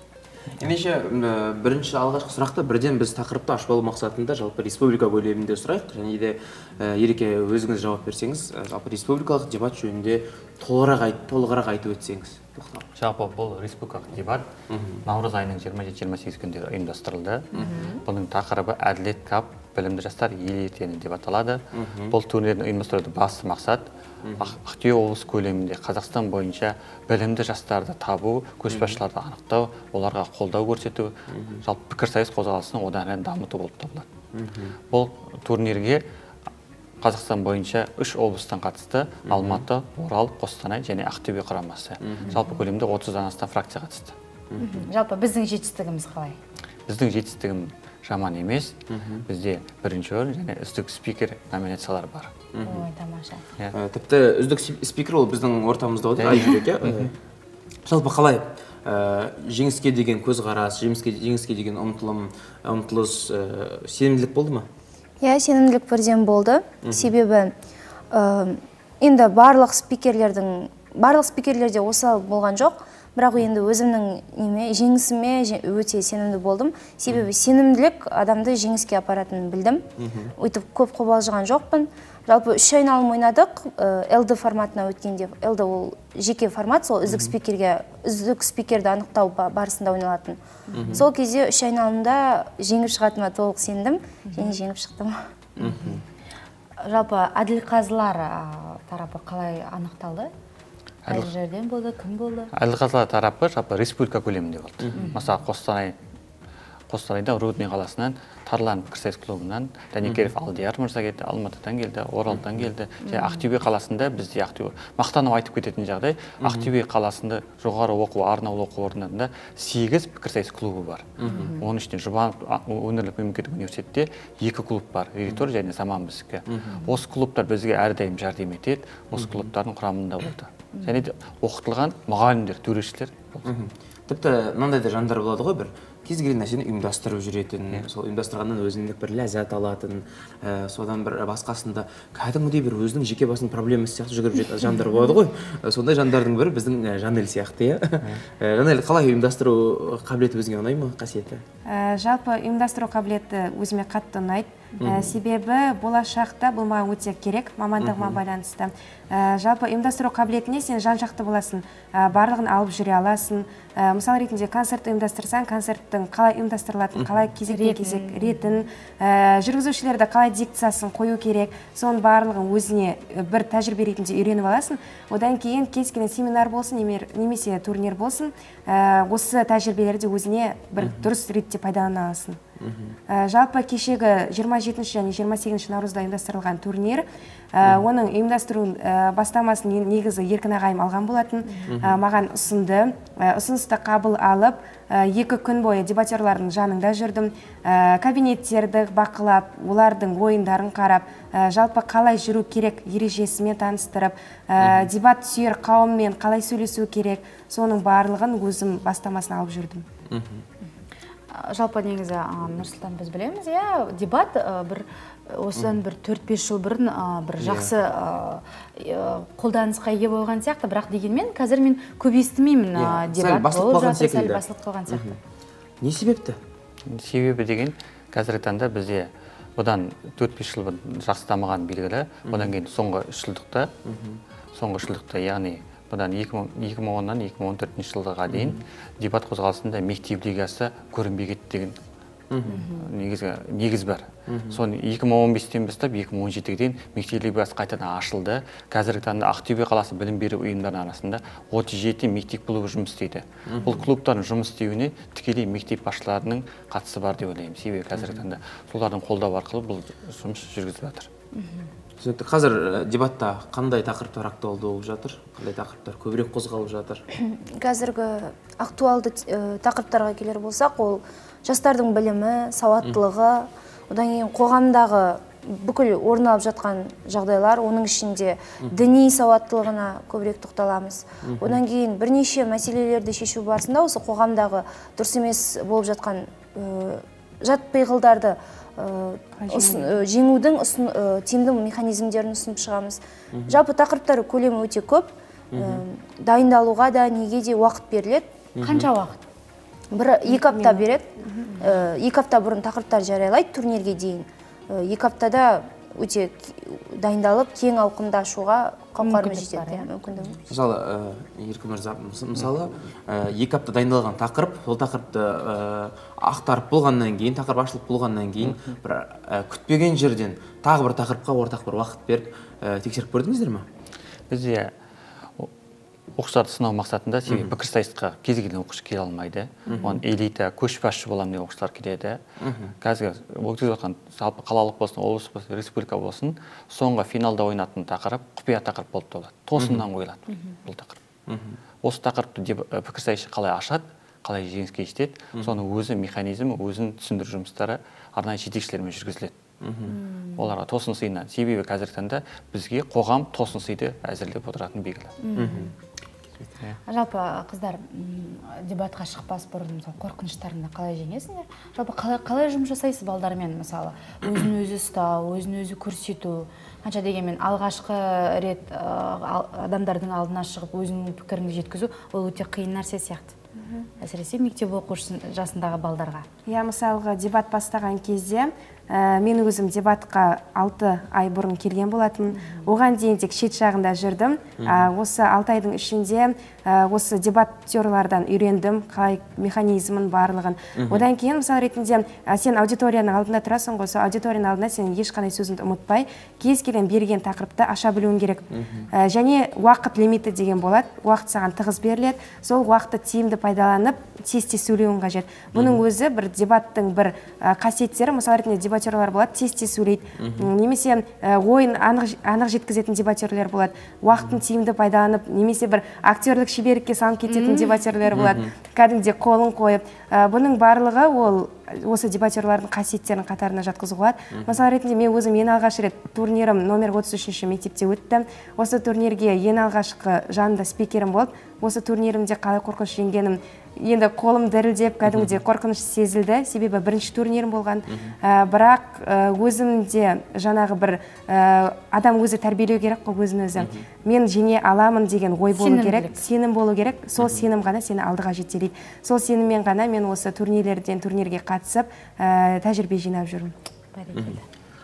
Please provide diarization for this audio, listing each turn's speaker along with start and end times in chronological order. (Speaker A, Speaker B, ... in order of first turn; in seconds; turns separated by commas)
Speaker A: 0.6-12.8, Speaker B: 12.9-14.4, Speaker A: 14.7-15.0, Speaker B: 15.1-23.9, Speaker C: 17.6-18.0, Speaker A: 21.7-22.1, Speaker A: 24.2-24.6, Speaker B: 24.4-34.1, Speaker A: 28.7-29.0, Speaker A: 31.3-31.6, Speaker A: 34.3-34.8, Speaker B: 34.9-36.0, Speaker B: 37.0-44.1, Speaker A: 39.3-39.6, Speaker A: 42.0-42.5, Speaker A: 44.5-44.8, Speaker C: 44.6-46.4, Speaker B: 46.9-48.8, Speaker A: 48.9-49.2, Speaker B: 49.3-52.3, Speaker A: 52.5-52.9, Speaker C: 52.6-53.4, Speaker A: 53.7-57.1, Speaker B: 56.2-57.1, Speaker A: 57.9-64.7, Speaker D: 65.2-67.5, Speaker A: 66.8-67.1, Speaker D: 68.1-79.8, Speaker A: 80.0-80.3, Speaker D: 80.4-90.4, Speaker A: 87.1-87.3, Speaker C: 90.7-91.0, Speaker A: 90.7-91.0, Speaker D: 90.9-95.1, Speaker C: 94.3-94.6, Speaker C: 95.6-95.9, Speaker A: 95.6-96.0, Speaker C: 96.8-100.3, Speaker B: 101.0-101.3, Speaker C: 101.1-102.5, Speaker B: 102.5-105.9, Speaker A: 104.8-105.2, Speaker C: 104.9-105.2, Speaker B: 106.9-133.5, Speaker A: 110.0-110.3, Speaker A: 112.3-112.7, Speaker C: 113.0-113.4, Speaker A: 116.4-116.7, Speaker A: 121.2-121.6, Speaker C: 121.3-121.6, Speaker A: 126.5-126.9, Speaker A: 129.2-129.5, Speaker C: 130.7-131.0, Speaker A: 133.4-151.4, Speaker E: 151.7-182.4, Speaker A: 154.8-155.2, Speaker A: 157.8-158.2, Speaker C: 167.4-168.4, Speaker A: 180.8-181.1, Speaker A: 182.6-183.0, Speaker E: 183.1-209.8, Speaker A: 191.7-192.0, Speaker A: 204.6-204.9, Speaker A: 210.1-210.4, Speaker C: 211.3-225.2, Speaker A: 217.4-217.7, Speaker A: 222.7-225.2, Speaker A: 225.8-226.4, Speaker B: 226.8-233.7, Speaker A: 232.3-232.5, Speaker A: 233.8-234.2, Speaker B: 234.5-241.8, Speaker A: 238.3-238.6, Speaker A: 242.3-242.6, Speaker C: 242.5-242.9, Speaker B: 242.8-261.1, Speaker A: 244.3-244.6, Speaker A: 253.5-253.8, Speaker C: 261.3-261.7, Speaker A: 262.0-267.0, Speaker D: 267.1-298.3, Speaker A: 281.2-281.6, Speaker E: 289.4-289.9, Speaker A: 293.3-293.6, Speaker A: 295.5-295.8, Speaker A: 298.6-298.9, Speaker C: 298.6-299.2, Speaker D: 299.9-310.4, Speaker E: 300.2-301.5, Speaker C: 309.0-309.9, Speaker A: 310.5-323.6, Speaker B: 324.3-324.7, Speaker B: 326.2-332.2, Speaker A: 327.3-327.5, Speaker A: 329.7-330.0, Speaker A: 332.4-332.7, Speaker B: 332.8-341.0, Speaker A: 339.6-339.9, Speaker A: 341.3-341.6, Speaker B: 341.8-349.3, Speaker A: 349.6-349.9, Speaker C: 349.9-350.5, Speaker B: 350.4-355.1, Speaker C: 355.2-355.7, Speaker A: 355.4-355.7, Speaker C: 356.9-373.3, Speaker C: 374.0-376.2, Speaker E: 376.4-453.5, Speaker C: 382.3-382.7, Speaker A: 384.6-384.9, Speaker A: 390.8-391.0, Speaker A: 398.5-398.9, Speaker A: 405.5-405.8, Speaker A: 410.2-410.5, Speaker C: 417.3-417.7, Speaker A: 418.1-418.5, Speaker A: 424.3-424.6, Speaker A: 435.1-435.3, Speaker A: 437.9-438.1, Speaker A: 443.6-443.9, Speaker C: 445.5-446.2, Speaker C: 453.9-454.4